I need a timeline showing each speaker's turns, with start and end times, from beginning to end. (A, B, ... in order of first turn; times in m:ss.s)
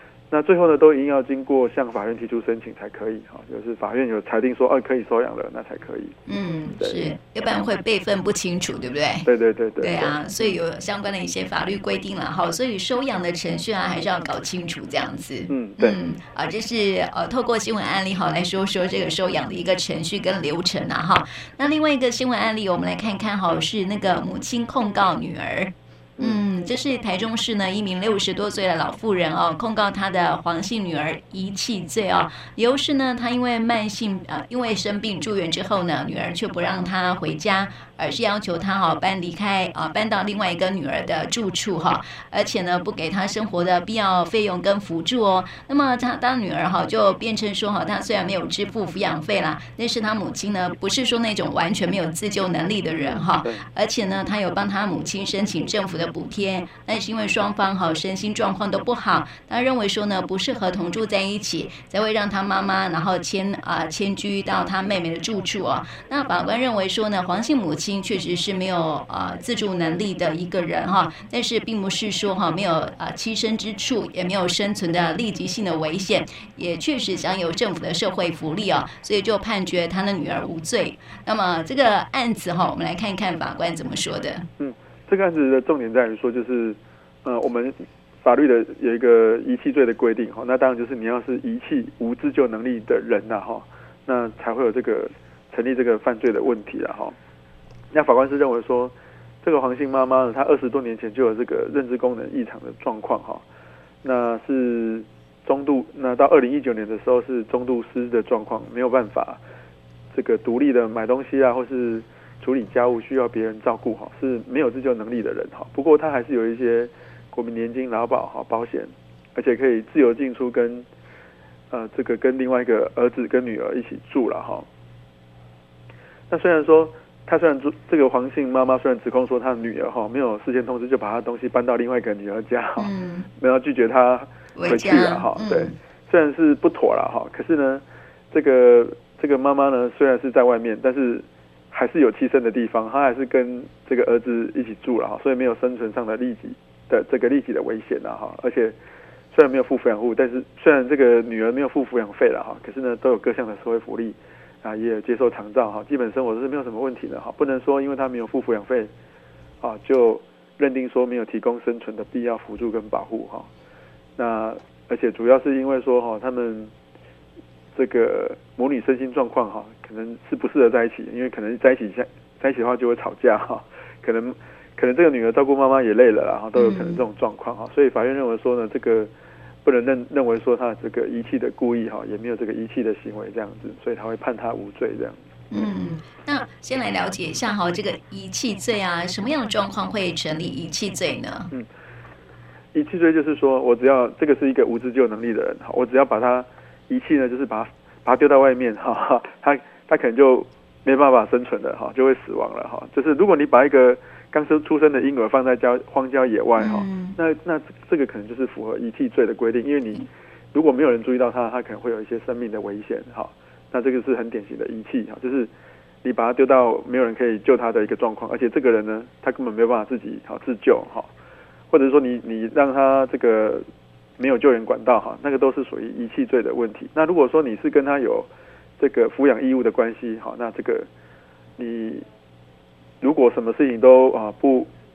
0:00.3-0:06.1 A
0:06.3-0:09.3 B
0:06.7-0:07.1 A
0:09.2-0:10.6 A
0:09.8-1:24.4 B
0:15.5-0:16.0 A
0:26.2-0:26.4 A
0:53.0-0:53.7 A
1:24.6-1:37.2 A
1:37.9-1:43.4 A
1:44.0-1:49.4 A
1:50.1-2:00.9 A
2:01.7-2:04.7 A
2:06.3-2:28.8 A
2:12.8-2:13.3 B
2:14.6-2:15.7 B
2:29.3-2:38.9 A
2:39.6-2:43.5 A
2:44.2-2:46.7 A
2:47.8-2:59.1 A
2:56.6-2:57.0 B
2:59.6-3:05.7 A
3:05.5-3:11.5 B
3:12.7-3:35.5 A
3:26.6-3:27.2 B
3:36.0-3:41.1 A
3:41.7-3:43.6 A
3:44.2-3:50.9 A
3:51.6-3:52.1 A
3:53.0-3:54.7 A